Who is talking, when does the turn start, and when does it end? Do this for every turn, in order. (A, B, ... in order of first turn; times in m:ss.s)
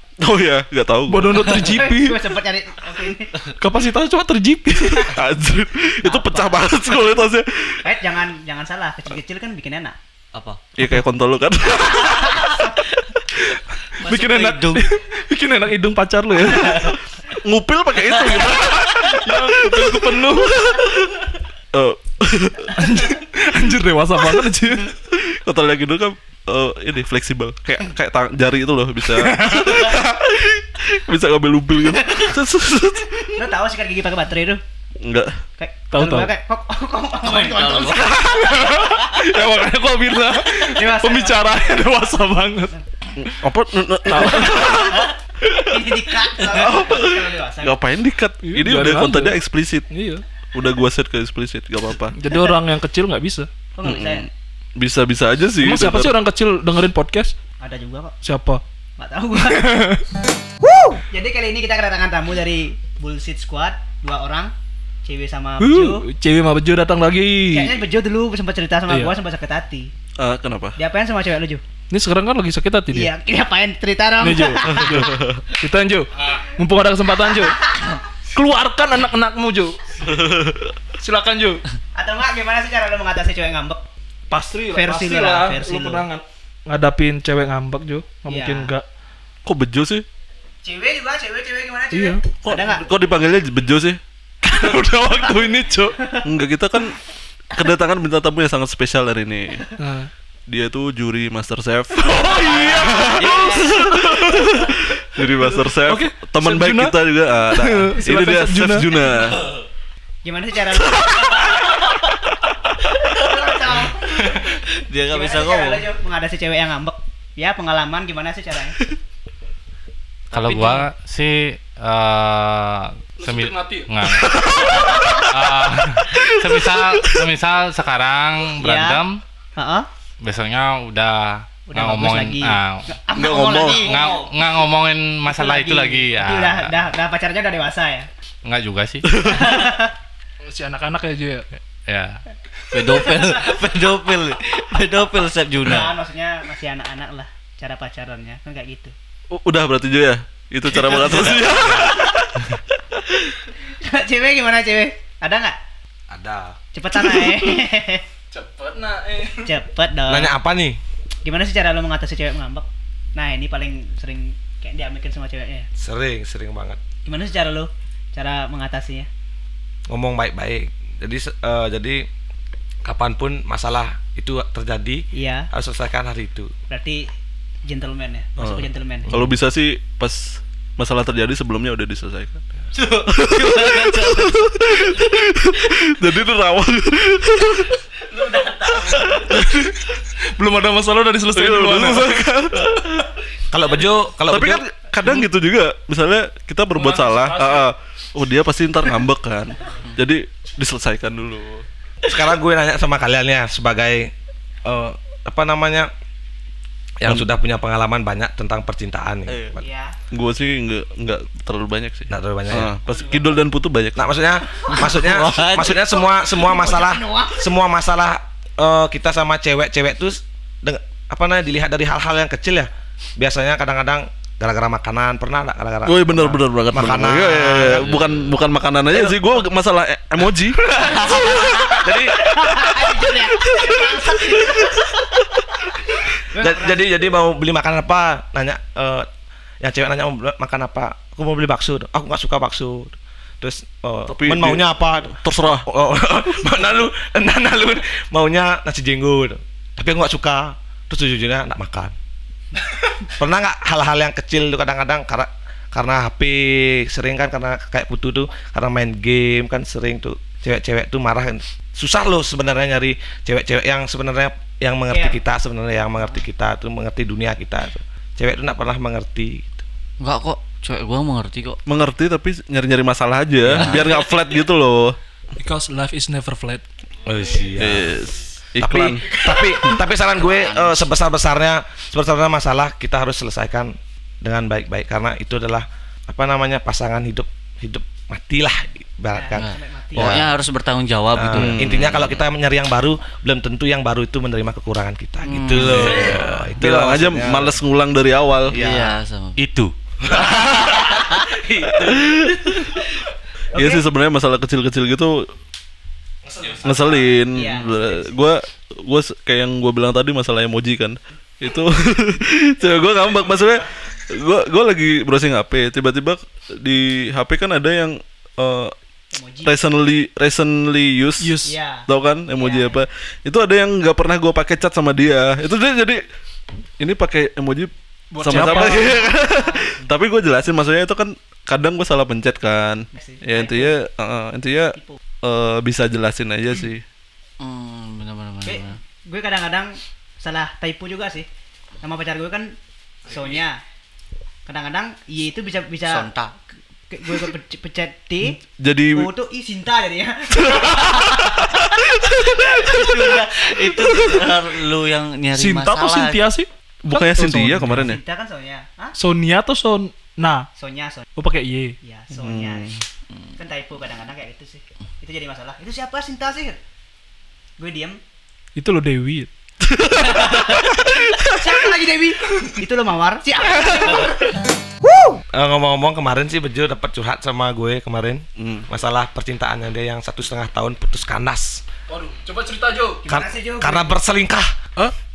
0:00.2-0:01.5 A
0:01.1-0:02.3 B
0:01.5-0:03.3 C
0:03.6-0:05.2 B
0:05.0-0:07.9 A
0:06.0-0:07.0 C
0:07.8-0:10.0 C
0:10.3-0:10.6 D
0:10.8-0:12.5 A
0:12.1-0:12.4 D
0:14.0-0:14.9 D
0:14.0-0:17.0 B
0:17.4-0:21.1 A
0:18.3-0:19.1 D
0:18.9-0:20.8 B
0:21.7-0:22.9 A
0:22.8-0:24.9 B
0:24.9-0:33.4 A
0:29.2-0:29.8 B
0:33.3-0:34.6 C
0:35.0-0:35.4 A
0:35.6-0:38.7 C
0:35.9-0:36.3 B
0:37.2-0:38.8 D
0:38.1-0:42.7 B
0:40.6-0:42.0 C
0:43.2-0:45.1 A
0:44.1-0:45.0 B
0:45.6-0:47.8 C
0:46.4-0:49.9 A
0:48.4-0:49.4 B
0:49.9-0:50.2 B
0:50.5-0:52.2 A
0:52.1-0:53.5 B
0:53.8-0:54.3 C
0:53.8-0:56.2 A
0:55.6-0:57.3 B
0:57.6-0:58.1 C
0:58.2-0:58.6 B
0:59.0-0:59.8 C
0:59.5-1:00.0 B
1:01.1-1:04.5 C
1:05.0-1:06.1 C
1:05.6-1:07.8 B
1:07.5-1:09.9 C
1:08.9-1:09.2 B
1:10.2-1:10.8 A
1:10.8-1:11.6 C
1:11.9-1:13.1 B
1:12.9-1:15.1 C
1:14.2-1:17.7 B
1:14.7-1:15.4 A
1:17.5-1:18.0 C
1:18.3-1:19.8 B
1:20.0-1:20.7 A
1:21.0-1:21.6 B
1:21.9-1:23.8 C
1:24.3-1:28.8 B
1:24.7-1:26.0 C
1:28.3-1:28.7 C
1:29.4-1:30.0 A
1:30.6-1:32.8 C
1:31.9-1:32.2 B
1:32.4-1:34.0 A
1:34.4-1:36.1 B
1:36.2-1:37.0 A
1:37.5-1:39.6 A
1:39.8-1:40.1 B
1:40.5-1:49.4 A
1:42.1-1:43.4 B
1:42.8-1:43.8 C
1:43.3-1:43.8 D
1:45.4-1:47.0 B
1:47.5-1:48.9 B
1:50.2-1:51.7 C
1:53.0-1:54.5 C
1:54.0-1:55.8 D
1:55.1-1:58.8 C
2:00.3-2:09.2 E
2:00.3-2:00.8 D
2:03.2-2:03.9 B
2:04.4-2:05.1 A
2:04.9-2:05.2 C
2:08.6-2:09.0 C
2:09.6-2:09.9 C
2:10.2-2:12.9 E
2:11.7-2:14.2 C
2:13.1-2:13.9 A
2:13.7-2:16.7 E
2:13.8-2:14.2 D
2:15.3-2:18.1 C
2:18.4-2:19.3 E
2:19.1-2:19.4 A
2:19.2-2:19.9 C
2:20.4-2:21.4 B
2:21.8-2:22.2 E
2:22.7-2:26.0 D
2:25.6-2:28.9 C
2:29.3-2:32.6 A
2:31.2-2:31.9 F
2:33.8-2:35.6 C
2:36.1-2:36.6 F
2:36.7-2:38.0 C
2:38.3-2:39.5 B
2:39.4-2:40.4 C
2:40.1-2:40.8 F
2:41.2-2:45.7 C
2:45.8-2:46.8 F
2:47.0-2:49.1 C
2:49.9-2:52.0 F
2:52.8-2:56.5 F
2:55.1-2:55.5 C
2:56.7-2:57.1 C
2:57.6-2:59.1 C
2:58.4-3:02.4 A
3:02.7-3:04.9 D
3:03.1-3:07.8 A
3:08.1-3:09.1 D
3:08.8-3:09.8 A
3:10.2-3:12.2 B
3:11.3-3:13.1 A
3:13.5-3:14.6 F
3:14.3-3:21.6 A
3:16.7-3:17.7 B
3:22.0-3:24.1 F
3:24.6-3:25.9 F
3:27.0-3:29.6 F
3:29.6-3:30.0 C
3:30.1-3:34.0 A
3:32.1-3:32.7 F
3:32.8-3:33.4 B
3:34.0-3:48.2 F
3:34.6-3:35.8 D
3:35.9-3:37.5 C
3:45.8-3:50.7 A
3:47.8-3:48.2 D
3:48.9-3:49.3 F
3:50.8-3:54.8 C
3:51.8-3:52.7 F
3:53.5-3:54.2 A
3:56.3-3:56.9 C
3:56.4-3:59.1 F
3:59.6-4:11.9 F
4:04.0-4:05.7 A
4:13.1-4:29.6 F
4:24.9-4:25.2 C
4:30.0-4:31.6 D
4:31.6-4:35.0 A
4:33.5-4:34.0 D
4:33.5-4:33.9 F
4:35.4-4:36.6 B
4:37.0-4:38.0 F
4:37.6-4:39.7 A
4:38.6-4:50.3 F
4:40.1-4:40.8 D
4:49.1-4:50.2 C
4:49.4-4:52.2 D
4:51.1-4:57.6 F
4:51.3-4:52.0 A
4:55.2-4:56.2 D
4:55.5-4:58.6 A
4:58.5-4:59.0 F
4:58.5-4:59.4 D
4:59.4-4:59.7 E
5:00.0-5:02.5 F
5:00.5-5:01.1 D
5:01.8-5:02.7 A
5:03.5-5:05.2 A
5:06.2-5:07.1 F
5:06.6-5:18.7 A
5:07.3-5:08.1 C
5:19.1-5:19.6 C
5:19.4-5:21.3 A
5:21.2-5:21.6 B
5:21.4-5:22.8 C
5:21.9-5:26.0 A
5:26.8-5:36.8 A
5:28.1-5:29.0 B
5:28.3-5:29.9 C
5:32.9-5:33.8 C
5:37.4-5:38.8 D
5:38.4-5:41.3 C
5:41.8-5:43.6 C
5:44.4-5:46.1 C
5:45.8-5:46.3 D
5:46.9-5:48.4 C
5:48.6-5:49.1 A
5:48.9-5:51.2 C
5:50.9-5:51.4 D
5:52.4-5:53.5 C
5:52.4-5:56.2 D
5:55.3-5:58.0 B
5:56.8-5:58.0 A
5:57.8-5:58.9 C
5:59.0-6:00.5 B
6:00.6-6:01.1 C
6:01.2-6:01.8 B
6:01.8-6:02.7 C
6:02.2-6:02.8 A
6:03.4-6:06.6 C
6:07.6-6:08.0 C
6:08.6-6:09.3 B
6:09.7-6:11.5 A
6:10.0-6:14.2 C
6:15.3-6:21.6 F
6:18.4-6:18.7 A
6:21.9-6:23.0 B
6:23.0-6:24.0 C
6:23.1-6:24.5 F